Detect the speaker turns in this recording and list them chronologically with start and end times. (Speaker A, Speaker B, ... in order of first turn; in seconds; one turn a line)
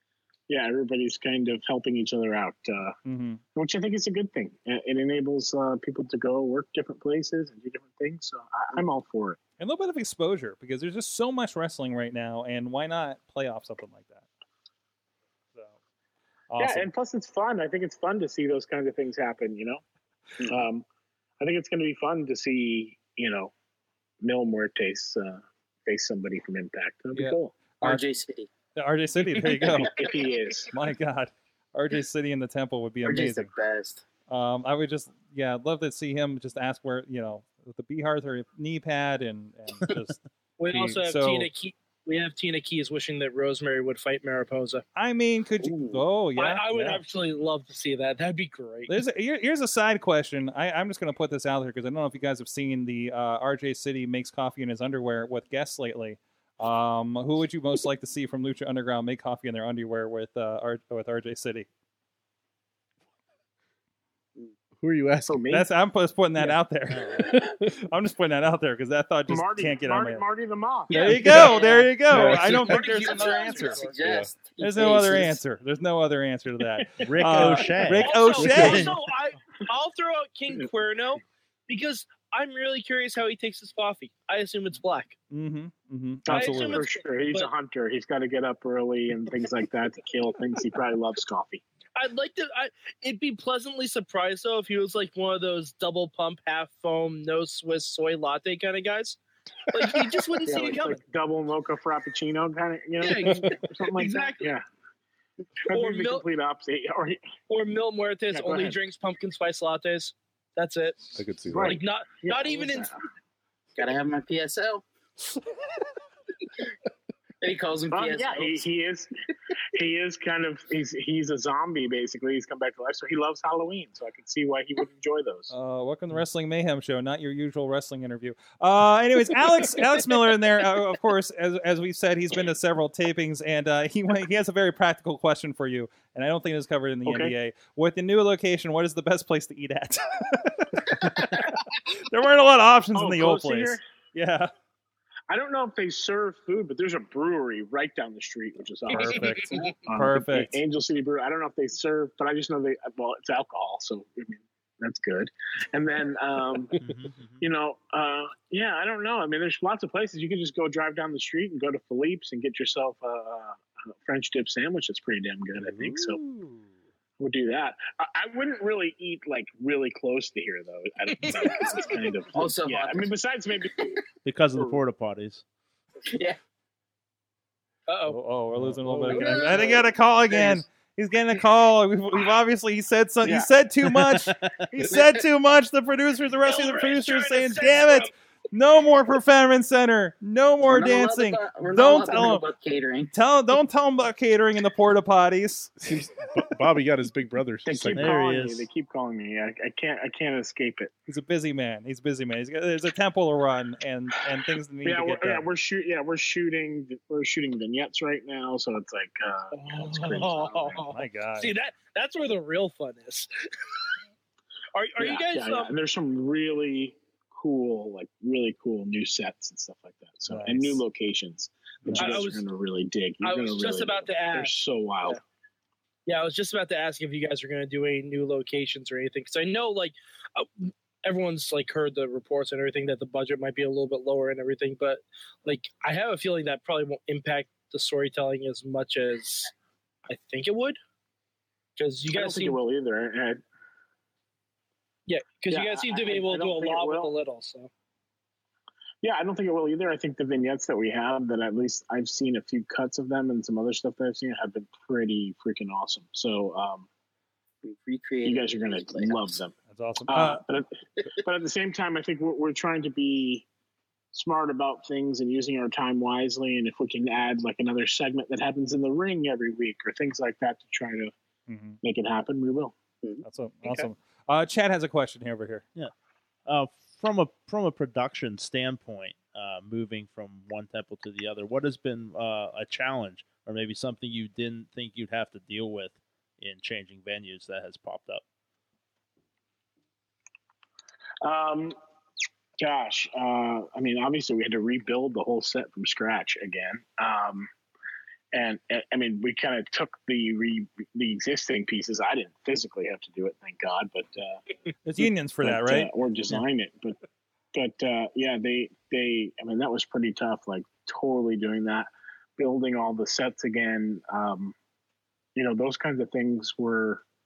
Speaker A: 0.5-3.0
Speaker B: 3.0-3.4
Speaker A: 3.5-9.4
Speaker B: 9.6-14.2
Speaker B: 16.5-16.9
Speaker A: 16.6-19.8
Speaker A: 20.4-20.8
Speaker A: 21.4-23.5
Speaker A: 24.2-27.5
Speaker B: 27.1-28.0
Speaker C: 27.8-28.5
Speaker B: 28.8-29.9
Speaker A: 29.7-30.7
Speaker B: 30.7-33.5
Speaker C: 33.0-34.0
Speaker B: 34.3-41.5
Speaker D: 40.6-44.8
Speaker B: 45.0-47.0
Speaker C: 45.6-46.0
Speaker D: 46.4-49.0
Speaker B: 48.9-61.7
Speaker E: 64.8-65.5
Speaker A: 65.3-65.7
Speaker B: 65.5-70.2
Speaker F: 66.9-67.3
Speaker A: 69.3-71.2
Speaker B: 70.9-73.8
Speaker D: 70.9-71.6
Speaker C: 71.2-75.4
Speaker E: 72.1-72.6
Speaker D: 72.8-73.9
Speaker E: 74.0-74.3
Speaker B: 74.6-78.9
Speaker A: 77.0-77.7
Speaker F: 77.0-79.0
Speaker D: 78.0-85.2
Speaker B: 85.3-86.8
Speaker A: 86.2-91.6
Speaker D: 86.3-87.5
Speaker D: 92.0-101.0
Speaker C: 100.5-100.7
Speaker A: 100.5-104.6
Speaker D: 103.0-104.5
Speaker A: 105.7-107.2
Speaker D: 105.7-106.3
Speaker D: 107.5-112.9
Speaker A: 108.3-108.8
Speaker E: 111.2-111.8
Speaker A: 111.5-112.9
Speaker C: 113.7-114.8
Speaker C: 117.4-118.7
Speaker A: 117.9-119.1
Speaker A: 119.7-125.5
Speaker B: 125.5-144.5
Speaker A: 137.1-137.3
Speaker A: 142.9-143.8
Speaker A: 145.3-156.9
Speaker B: 148.9-150.6
Speaker F: 156.8-157.4
Speaker A: 157.4-166.2
Speaker B: 166.1-166.6
Speaker A: 167.2-173.7
Speaker D: 171.2-171.8
Speaker C: 172.3-174.0
Speaker F: 174.2-175.4
Speaker C: 176.1-176.4
Speaker D: 177.9-178.2
Speaker B: 178.1-192.5
Speaker F: 178.6-179.4
Speaker C: 179.1-179.8
Speaker F: 183.9-184.5
Speaker C: 184.9-185.2
Speaker D: 186.4-188.1
Speaker C: 190.7-193.1
Speaker B: 193.1-195.7
Speaker E: 195.8-198.2
Speaker A: 197.6-200.9
Speaker F: 197.9-198.7
Speaker B: 201.1-205.5
Speaker A: 204.8-210.8
Speaker D: 209.5-213.7
Speaker C: 210.2-210.8
Speaker B: 210.9-211.5
Speaker D: 214.7-215.7
Speaker A: 215.0-225.2
Speaker B: 220.3-220.8
Speaker B: 221.8-222.1
Speaker D: 221.9-222.4
Speaker D: 223.2-224.5
Speaker D: 226.1-239.5
Speaker D: 240.1-240.8
Speaker D: 241.8-242.6
Speaker A: 242.1-243.4
Speaker D: 245.1-247.7
Speaker A: 245.5-247.1
Speaker A: 249.0-256.9
Speaker C: 257.6-259.4
Speaker A: 258.2-259.5
Speaker B: 259.7-260.4
Speaker A: 260.1-263.4
Speaker A: 264.1-271.1
Speaker B: 271.5-271.8
Speaker A: 271.8-272.7
Speaker B: 273.2-275.6
Speaker F: 276.4-288.2
Speaker A: 291.2-291.8
Speaker A: 292.6-297.5
Speaker A: 298.3-304.4
Speaker B: 304.8-305.9
Speaker A: 305.0-307.0
Speaker A: 307.5-314.5
Speaker A: 315.3-317.0